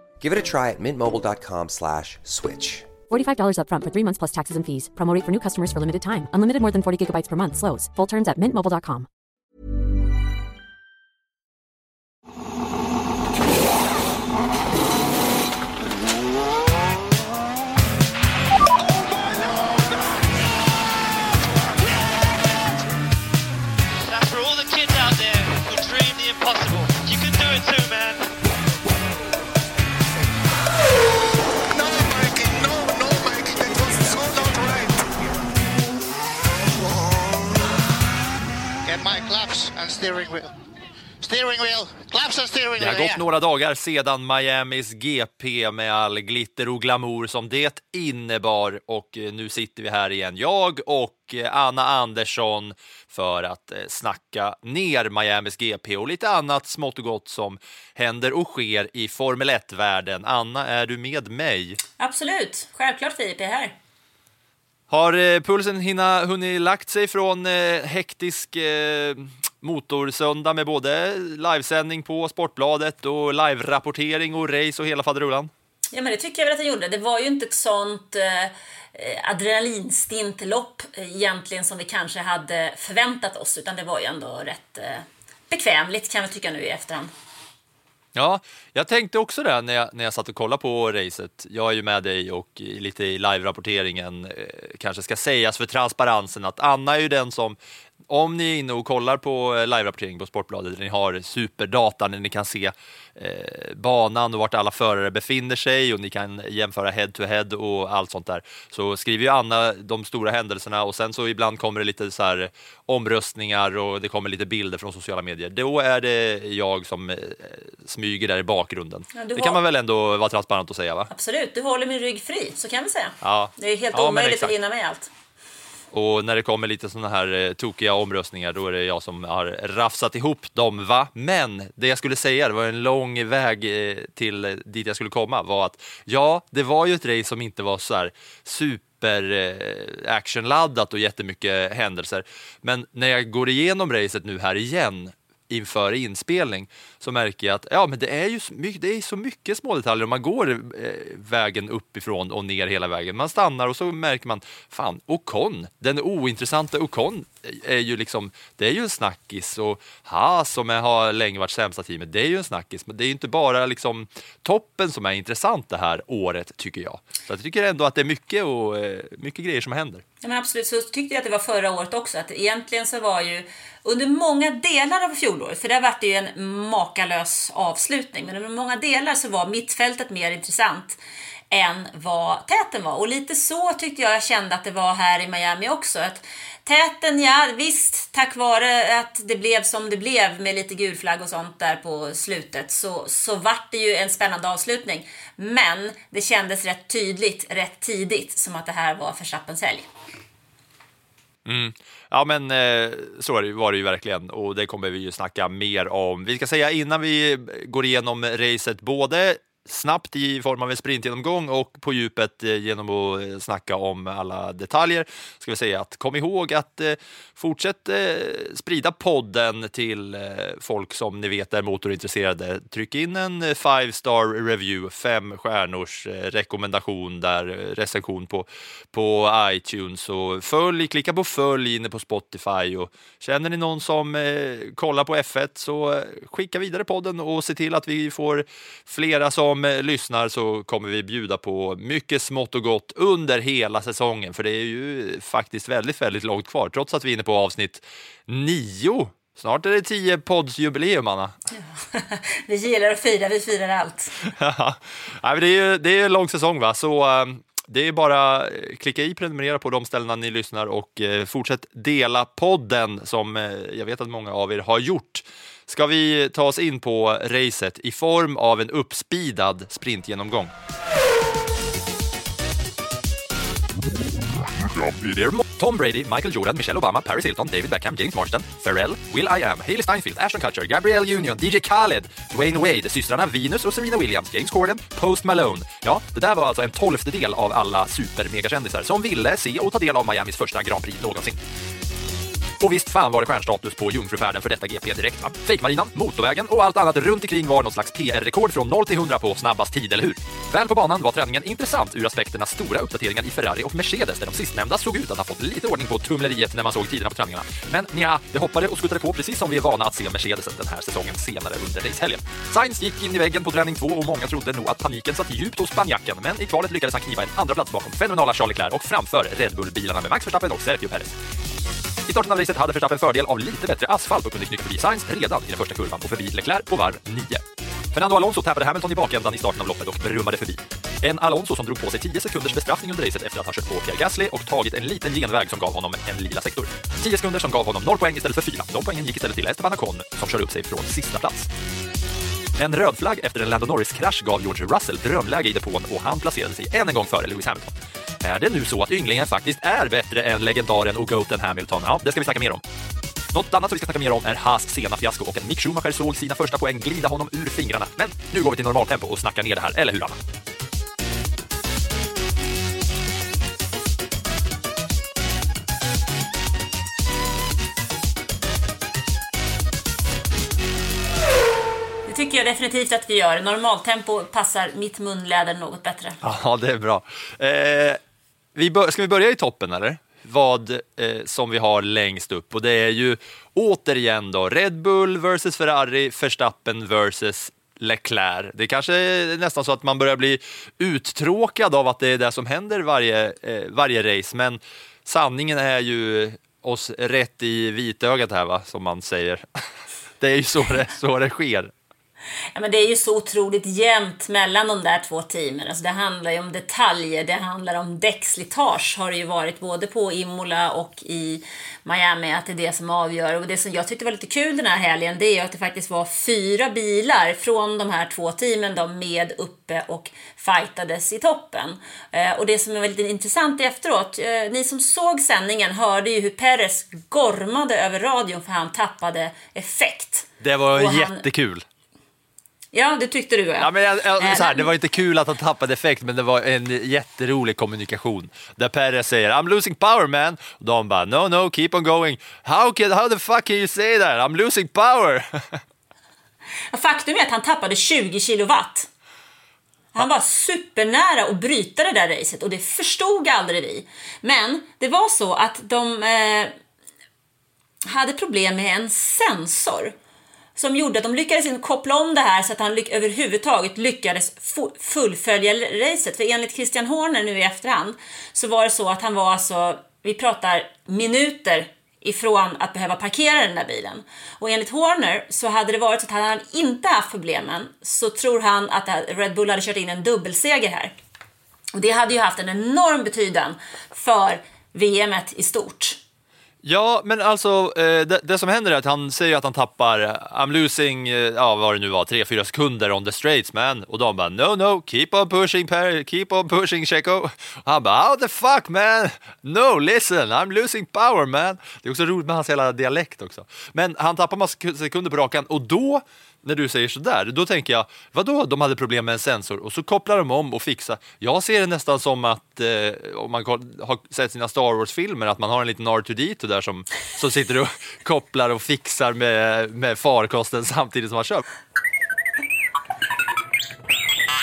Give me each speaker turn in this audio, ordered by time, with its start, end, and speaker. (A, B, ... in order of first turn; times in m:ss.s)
0:00.2-0:02.9 A
0:03.1-0:09.1 B
0:24.0-0:28.3 C
0:31.7-0:35.1 C
0:36.8-0:37.4 C
0:38.8-0:40.5 C
0:41.2-0:43.2 C
0:42.8-1:01.8 D
1:02.0-1:03.8 E
1:04.9-1:15.5 D
1:15.9-1:27.1 E
1:28.2-1:37.6 D
1:38.1-2:01.1 D
1:59.1-1:59.6 E
2:01.1-2:05.1 E
2:03.2-2:04.5 D
2:05.9-2:50.0 D
2:50.2-3:01.0 E
3:01.5-3:19.9 E
3:21.4-4:11.4 D
4:11.6-4:14.2 E
4:14.2-4:30.5 D
4:34.6-4:51.4 D
4:52.6-5:21.2 D
5:22.0-5:41.5 D
5:42.6-5:52.6 D
5:53.3-6:00.2 D
6:12.1-6:16.2 E
6:16.2-6:18.0 D
6:18.6-6:39.4 D
6:40.2-6:41.7 D
6:42.6-7:11.2 E
7:10.4-7:11.7 D
7:12.7-7:14.7 E
7:13.6-7:25.6 D
7:26.7-7:28.9 E
7:30.0-7:36.5 E
7:37.8-7:40.0 E
7:40.6-8:01.0 E
8:01.7-8:06.0 E
8:06.6-8:41.4 D